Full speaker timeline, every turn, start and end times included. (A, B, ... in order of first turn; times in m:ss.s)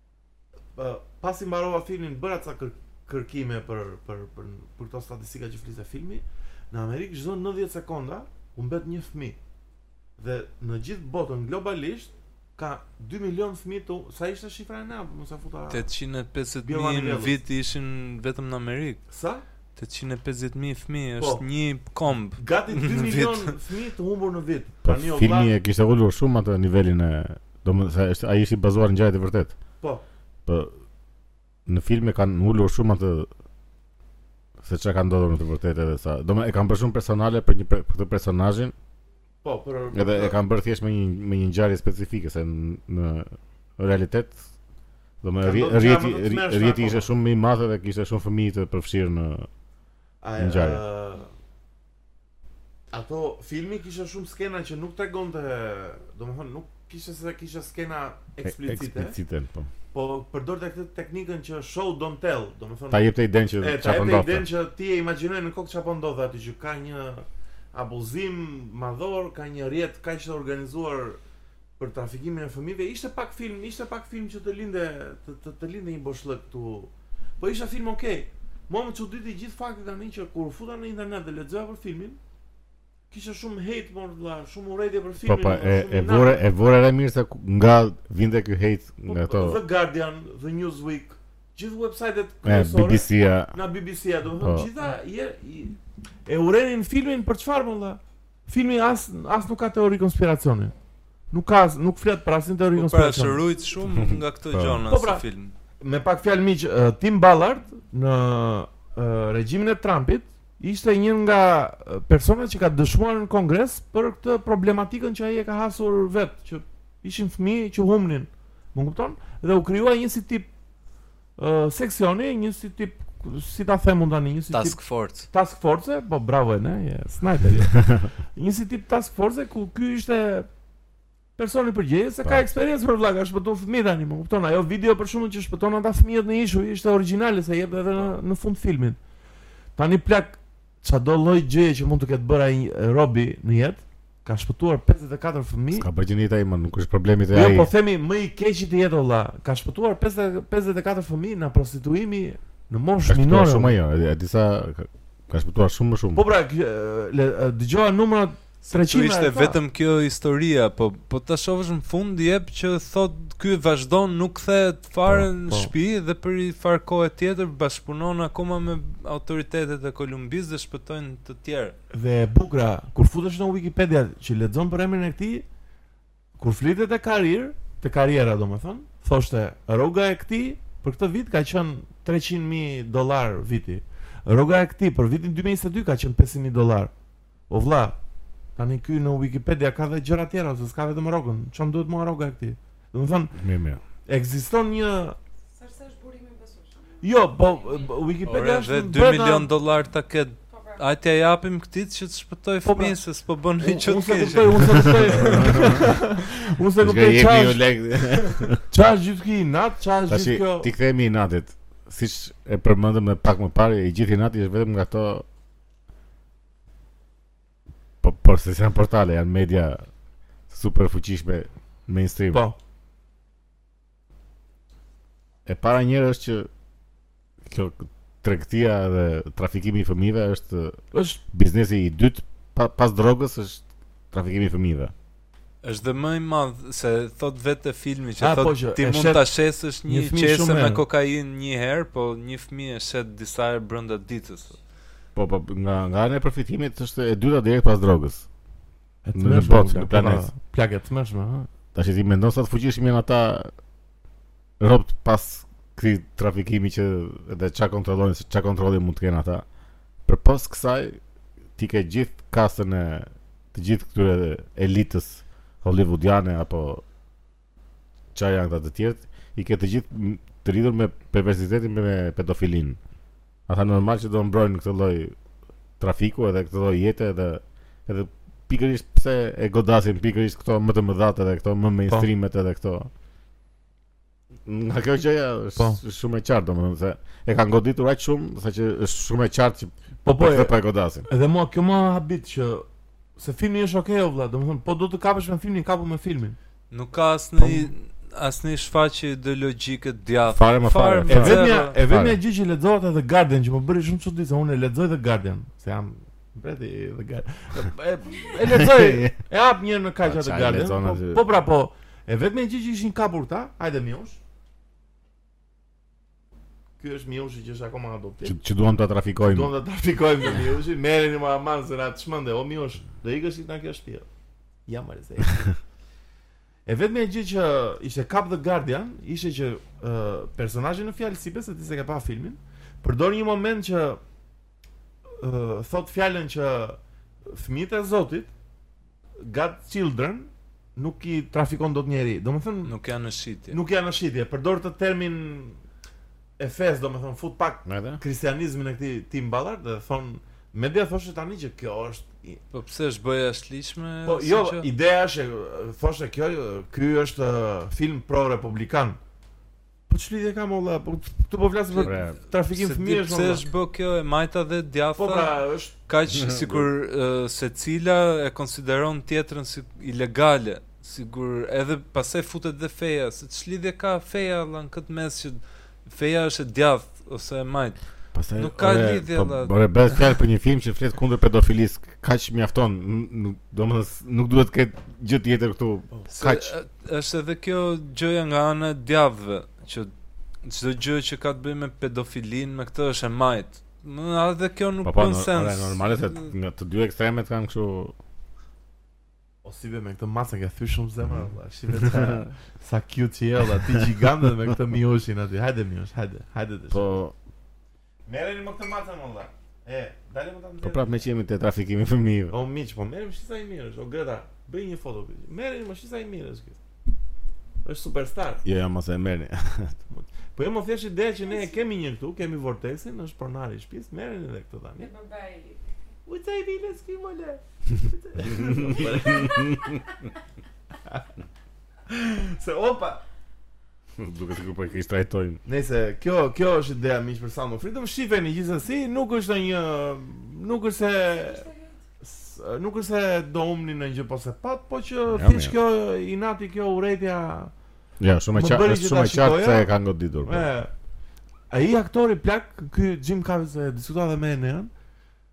0:00.8-0:09.4 A
0:10.2-0:15.9 A
0:15.7-0:19.0 B
0:16.6-0:17.4 A
0:19.1-0:19.4 A
0:19.8-0:23.5 B
0:21.2-0:21.4 A
0:22.4-0:25.5 A
0:24.8-0:29.6 C
0:30.4-0:30.7 C
0:31.6-0:33.3 C
0:34.6-0:38.7 C
0:39.4-0:40.4 A
0:39.9-0:44.4 C
0:45.2-0:49.5 C
0:45.4-0:47.1 A
0:50.2-0:51.3 A
0:50.4-0:50.8 C
0:52.9-0:59.2 A
0:58.4-0:59.7 C
0:59.9-1:11.2 A
1:02.9-1:04.4 C
1:11.8-1:22.2 A
1:23.1-1:26.4 A
1:25.2-1:29.6 C
1:29.0-1:40.7 A
1:32.4-1:33.5 C
1:34.4-1:34.7 C
1:41.3-1:43.4 A
1:42.7-1:45.5 B
1:44.0-1:44.8 C
1:44.9-1:45.2 A
1:45.8-2:00.5 A
2:01.4-2:10.5 A
2:04.5-2:05.3 B
2:11.4-2:19.0 A
2:19.8-2:25.9 A
2:25.7-2:27.7 C
2:27.3-2:33.7 A
2:33.1-2:36.2 C
2:36.1-2:39.6 A
2:38.7-2:51.7 B
2:45.5-2:45.7 A
2:51.9-2:55.4 A
2:56.4-3:06.9 A
3:07.5-3:08.0 A
3:08.6-3:13.4 A
3:13.3-3:13.8 C
3:14.0-3:15.2 A
3:15.5-3:18.0 D
3:17.0-3:19.5 A
3:18.2-3:25.8 B
3:20.5-3:20.8 D
3:22.6-3:23.0 A
3:23.6-3:27.6 A
3:25.2-3:25.9 C
3:26.8-3:28.6 C
3:28.7-3:30.7 A
3:30.1-3:35.2 C
3:38.0-3:39.8 C
3:40.5-3:42.4 C
3:45.4-3:46.5 C
3:47.4-3:50.8 C
3:50.9-3:51.2 A
3:51.3-3:54.9 C
3:55.6-4:04.6 B
3:58.2-3:59.2 A
3:59.8-4:00.8 A
4:05.2-4:08.2 C
4:09.0-4:11.5 A
4:09.1-4:10.3 C
4:11.7-4:13.5 C
4:14.6-4:19.4 C
4:20.0-4:21.0 C
4:21.6-4:26.8 C
4:28.1-4:32.8 C
4:33.5-4:35.1 C
4:35.8-4:42.9 C
4:44.4-4:51.0 C
4:50.0-4:52.6 A
4:53.2-4:56.4 A
4:56.7-5:01.8 B
4:57.4-4:57.7 A
5:00.3-5:02.2 C
5:01.1-5:14.2 A
5:08.4-5:09.2 C
5:10.0-5:11.2 C
5:16.8-5:18.4 A
5:18.2-5:19.5 C
5:19.2-5:24.1 A
5:24.7-5:25.5 A
5:26.6-5:34.0 A
5:35.2-5:38.3 A
5:39.2-5:42.7 A
5:42.6-5:43.6 B
5:43.5-5:45.6 A
5:46.4-5:52.4 A
5:47.6-5:48.0 C
5:52.5-5:54.7 B
5:54.0-5:59.0 A
5:59.9-6:03.4 A
6:01.7-6:02.0 B
6:01.8-6:02.2 C
6:02.5-6:19.6 B
6:05.0-6:05.7 A
6:06.1-6:06.7 C
6:18.1-6:26.5 C
6:26.1-6:29.9 B
6:30.4-6:36.3 B
6:34.8-6:37.9 C
6:39.4-6:47.0 A
6:41.8-6:42.3 C
6:46.7-6:47.1 C
6:48.1-6:51.0 A
6:50.6-6:52.3 C
6:52.3-6:56.6 A
6:57.6-6:58.4 A
6:58.4-6:59.8 C
6:59.9-7:04.9 A
7:01.2-7:01.6 D
7:04.8-7:05.7 D
7:06.0-7:09.6 A
7:08.2-7:09.8 C
7:08.5-7:10.1 D
7:11.9-7:13.0 A
7:14.0-7:15.4 C
7:15.4-7:21.5 A
7:21.1-7:21.8 D
7:22.0-7:27.5 A
7:25.1-7:25.5 C
7:28.0-7:30.5 C
7:28.3-7:30.7 A
7:31.5-7:34.7 A